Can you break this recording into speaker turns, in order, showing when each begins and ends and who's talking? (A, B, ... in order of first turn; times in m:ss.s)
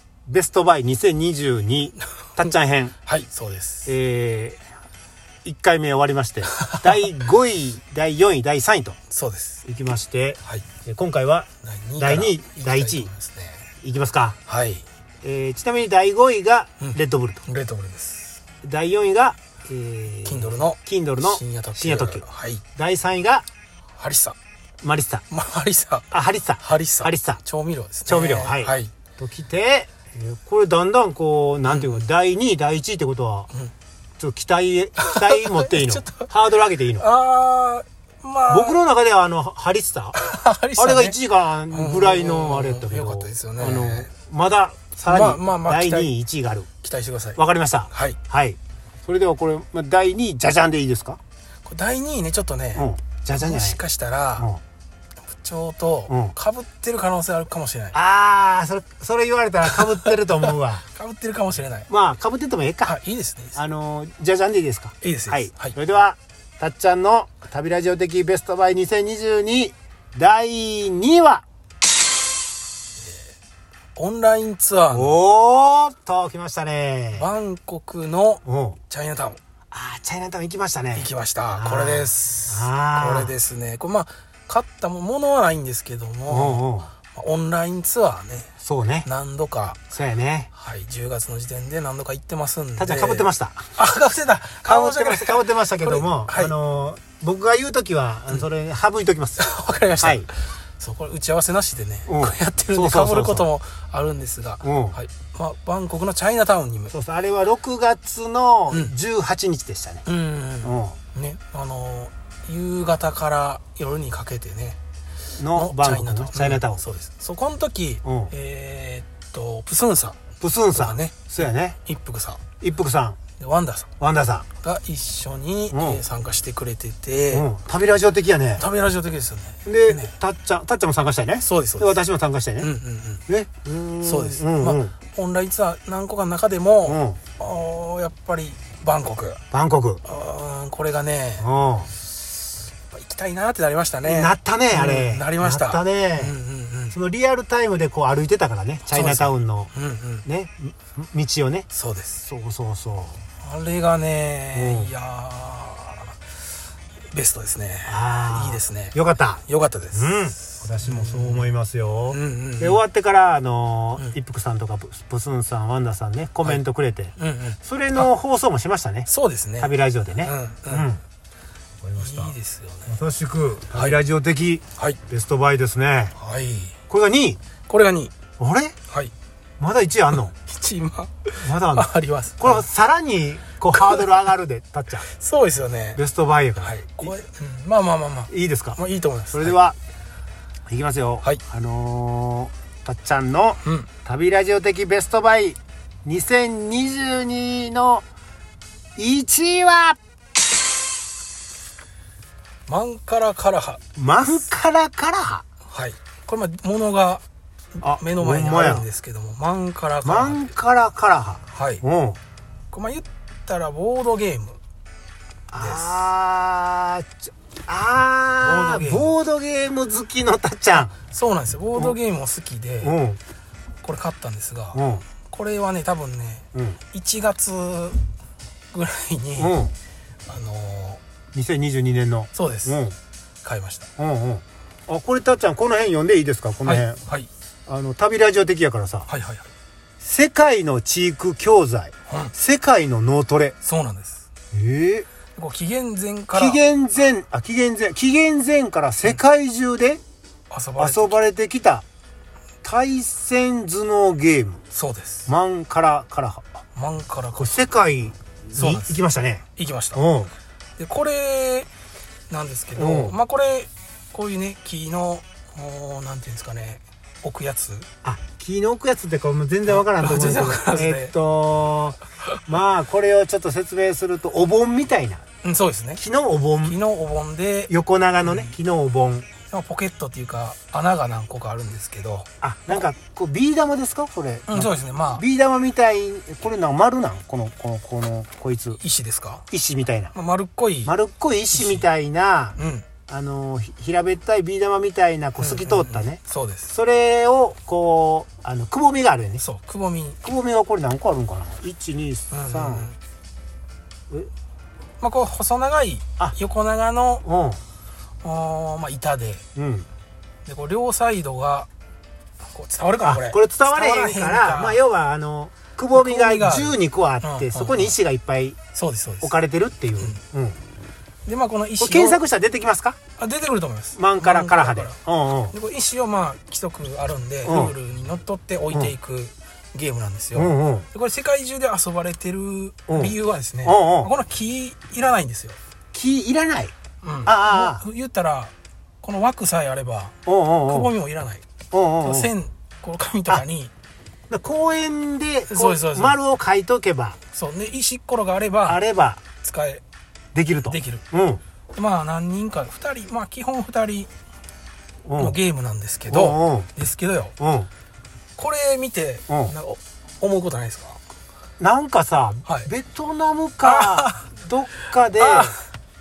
0:00.3-0:02.9 A
0:02.0-0:02.5 B
0:03.0-0:03.9 B
0:03.9-0:04.6 A
0:05.4-0:09.0 A
0:06.6-0:07.0 B
0:09.1-0:09.6 B
0:09.7-0:11.5 A
0:11.6-0:13.7 B
0:12.0-0:13.1 A
0:13.8-0:14.4 A
0:14.5-0:14.8 B
0:15.2-0:17.4 A
0:16.8-0:18.4 B
0:18.6-0:22.2 A
0:20.2-0:22.6 B
0:22.8-0:23.5 A
0:24.0-0:24.4 B
0:24.8-0:25.2 A
0:25.3-0:26.1 B
0:26.1-0:27.4 A
0:26.6-0:28.9 B
0:28.1-0:33.5 A
0:31.7-0:32.0 B
0:34.2-0:37.1 A
0:35.0-0:36.3 B
0:37.0-0:38.8 B
0:38.5-0:40.2 A
0:40.2-0:41.2 B
0:40.8-0:46.7 A
0:41.7-0:44.1 B
0:45.1-0:46.1 B
0:46.8-0:47.4 B
0:47.4-0:51.2 A
0:47.9-0:48.2 B
0:51.6-0:54.5 B
0:52.8-0:53.8 A
0:55.3-0:58.0 B
0:56.1-0:56.3 A
0:57.9-1:00.8 A
0:59.6-1:01.9 B
1:01.9-1:03.0 A
1:02.8-1:03.6 B
1:03.6-1:11.4 A
1:05.0-1:05.8 B
1:13.0-1:13.3 B
1:14.0-1:15.2 B
1:14.9-1:17.3 A
1:17.1-1:19.4 B
1:18.4-1:18.8 A
1:19.7-1:23.3 A
1:21.0-1:28.5 B
1:26.3-1:26.9 A
1:28.6-1:29.1 A
1:29.0-1:29.9 B
1:29.9-1:30.5 A
1:30.5-1:36.5 B
1:32.8-1:33.6 A
1:34.6-1:39.4 A
1:39.4-1:46.9 B
1:40.0-1:40.3 A
1:42.1-1:43.5 A
1:44.6-1:45.0 A
1:46.9-1:50.0 A
1:50.1-1:54.8 B
1:50.6-1:51.0 A
1:55.4-1:56.8 A
1:55.5-2:02.4 B
1:58.0-1:58.3 A
2:00.4-2:01.8 A
2:02.6-2:03.2 A
2:03.4-2:03.9 B
2:04.0-2:04.5 A
2:04.6-2:07.5 B
2:05.7-2:06.0 A
2:07.3-2:08.6 A
2:08.6-2:10.1 B
2:09.6-2:12.7 A
2:11.4-2:12.0 B
2:12.6-2:13.2 B
2:13.3-2:14.9 A
2:14.0-2:19.4 B
2:16.8-2:17.2 A
2:19.5-2:20.0 A
2:20.0-2:21.5 B
2:21.4-2:21.9 A
2:22.9-2:27.0 B
2:24.0-2:26.4 A
2:26.9-2:29.7 A
2:28.9-2:30.2 B
2:30.2-2:31.7 A
2:31.7-2:32.2 B
2:32.2-2:33.2 A
2:33.4-2:36.5 B
2:34.5-2:34.9 A
2:37.1-2:41.5 B
2:37.8-2:39.4 A
2:39.9-2:47.1 A
2:42.1-2:42.8 B
2:47.2-2:48.1 B
2:47.6-2:49.1 A
2:49.1-2:50.9 B
2:49.6-2:51.0 A
2:51.8-2:52.4 A
2:52.0-2:53.0 B
2:52.9-2:56.1 A
2:56.2-2:56.8 B
2:56.9-2:57.4 A
2:57.7-2:58.2 B
2:58.4-2:58.8 A
2:59.6-3:00.3 A
3:00.4-3:02.6 B
3:01.4-3:05.1 A
3:03.7-3:04.1 B
3:05.0-3:06.0 B
3:06.0-3:07.1 A
3:06.6-3:09.6 B
3:08.3-3:08.8 A
3:09.3-3:09.8 A
3:10.7-3:18.0 A
3:13.6-3:13.9 B
3:19.0-3:20.0 A
3:22.7-3:24.4 B
3:24.0-3:25.4 A
3:25.7-3:27.2 B
3:27.8-3:30.5 B
3:27.8-3:28.9 A
3:30.0-3:32.2 A
3:31.5-3:31.8 B
3:32.7-3:34.6 B
3:35.5-3:40.9 A
3:35.6-3:36.1 B
3:38.4-3:39.2 B
3:41.0-3:43.0 B
3:42.8-3:43.2 A
3:43.8-3:48.0 B
3:44.7-3:45.1 A
3:46.5-3:46.8 A
3:48.7-3:49.6 B
3:49.4-3:49.7 A
3:50.3-3:51.0 B
3:51.3-3:53.0 A
3:52.3-3:52.8 B
3:53.4-3:53.9 B
3:54.0-3:57.0 A
3:56.6-3:57.3 B
3:57.7-3:59.1 A
3:59.1-3:59.4 B
4:00.0-4:03.6 A
4:02.1-4:02.3 B
4:03.6-4:04.2 B
4:04.5-4:05.1 A
4:05.4-4:06.6 B
4:06.3-4:10.0 A
4:10.5-4:11.2 B
4:10.8-4:11.8 A
4:12.6-4:14.6 A
4:14.7-4:15.3 B
4:15.3-4:16.4 A
4:16.8-4:17.6 B
4:17.4-4:20.3 A
4:18.5-4:19.0 B
4:19.6-4:20.0 B
4:20.8-4:21.7 B
4:22.3-4:27.9 B
4:22.8-4:23.2 A
4:28.0-4:35.2 A
4:29.7-4:31.1 B
4:35.4-4:36.0 B
4:36.0-4:36.8 A
4:36.6-4:38.5 B
4:37.7-4:39.3 A
4:39.5-4:42.8 B
4:42.4-4:48.8 A
4:44.5-4:45.2 B
4:48.8-4:49.4 B
4:49.5-4:50.1 A
4:50.1-4:50.9 B
4:50.8-4:52.6 A
4:51.5-4:51.9 B
4:52.6-4:52.9 B
4:53.1-4:59.4 A
4:55.4-4:56.7 B
4:59.4-5:00.2 B
5:00.2-5:02.9 A
5:02.3-5:03.0 B
5:05.0-5:07.2 B
5:07.2-5:07.6 A
5:08.2-5:09.4 B
5:09.6-5:09.9 A
5:10.5-5:11.7 B
5:12.5-5:14.8 B
5:13.0-5:18.6 A
5:15.9-5:18.0 B
5:18.7-5:19.4 B
5:19.2-5:20.6 A
5:21.3-5:22.2 B
5:21.8-5:23.0 A
5:23.2-5:25.0 B
5:23.9-5:25.6 A
5:25.5-5:35.6 B
5:27.4-5:27.8 A
5:30.4-5:30.9 A
5:32.9-5:34.1 A
5:35.9-5:36.7 A
5:37.0-5:40.2 B
5:37.2-5:37.8 A
5:40.3-5:40.9 A
5:40.7-5:41.4 B
5:41.7-5:42.3 A
5:42.0-5:43.7 B
5:44.3-5:47.2 A
5:45.5-5:46.2 B
5:47.3-5:48.8 B
5:48.6-5:49.2 A
5:49.4-5:49.8 B
5:50.3-5:51.4 A
5:50.7-5:51.0 B
5:51.7-5:54.1 B
5:55.1-5:55.4 A
5:55.2-5:57.4 B
5:56.1-5:56.7 A
5:57.4-5:57.7 A
5:58.4-6:01.0 B
5:59.3-5:59.5 A
6:01.6-6:05.6 A
6:03.6-6:04.3 B
6:05.2-6:05.6 B